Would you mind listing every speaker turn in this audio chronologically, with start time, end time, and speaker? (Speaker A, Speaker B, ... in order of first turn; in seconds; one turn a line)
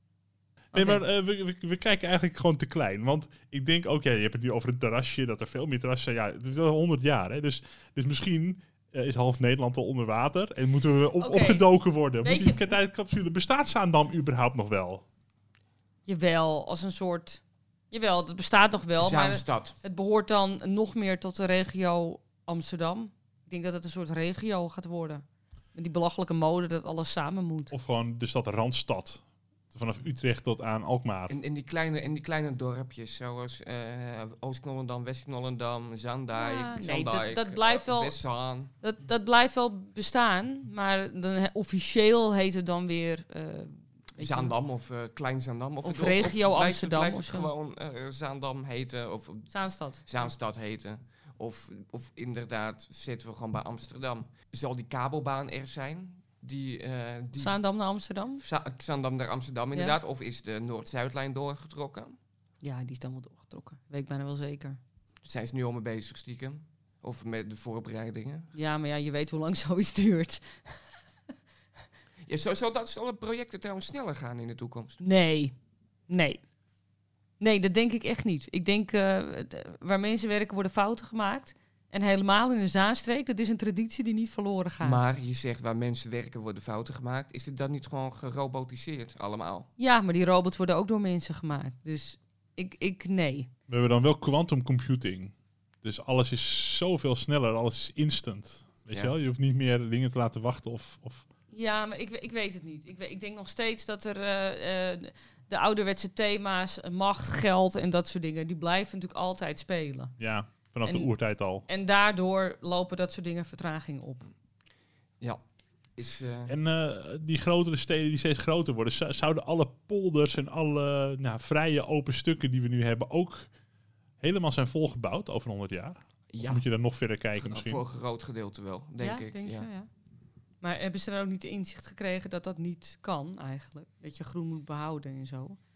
Speaker A: 0.7-15.0
Speaker B: 0.7-1.0
Speaker B: 11.2-11.6
Speaker B: 12.2-12.6
Speaker B: 16.1-25.2
Speaker C: 19.0-19.8
Speaker B: 25.7-27.7
Speaker A: 27.7-31.3
Speaker C: 31.3-38.7
Speaker B: 36.4-38.2
Speaker B: 38.8-44.5
Speaker C: 44.2-49.5
Speaker B: 45.8-47.5
Speaker B: 49.5-50.3
Speaker C: 50.0-57.6
Speaker B: 57.4-58.4
Speaker C: 58.4-62.1
Speaker B: 62.6-64.8
Speaker C: 65.2-68.5
Speaker B: 68.5-70.9
Speaker C: 72.2-75.0
Speaker B: 75.0-75.5
Speaker B: 76.1-76.4
Speaker B: 77.4-85.0
Speaker C: 84.8-89.7
Speaker B: 89.8-93.5
Speaker A: 93.7-101.2
Speaker B: 101.5-110.1
Speaker A: 110.2-111.6
Speaker B: 111.7-114.3
Speaker C: 116.0-116.5
Speaker A: 116.5-123.5
Speaker A: 124.2-127.8
Speaker C: 126.3-126.6
Speaker C: 127.4-129.7
Speaker B: 129.0-129.9
Speaker B: 130.6-135.6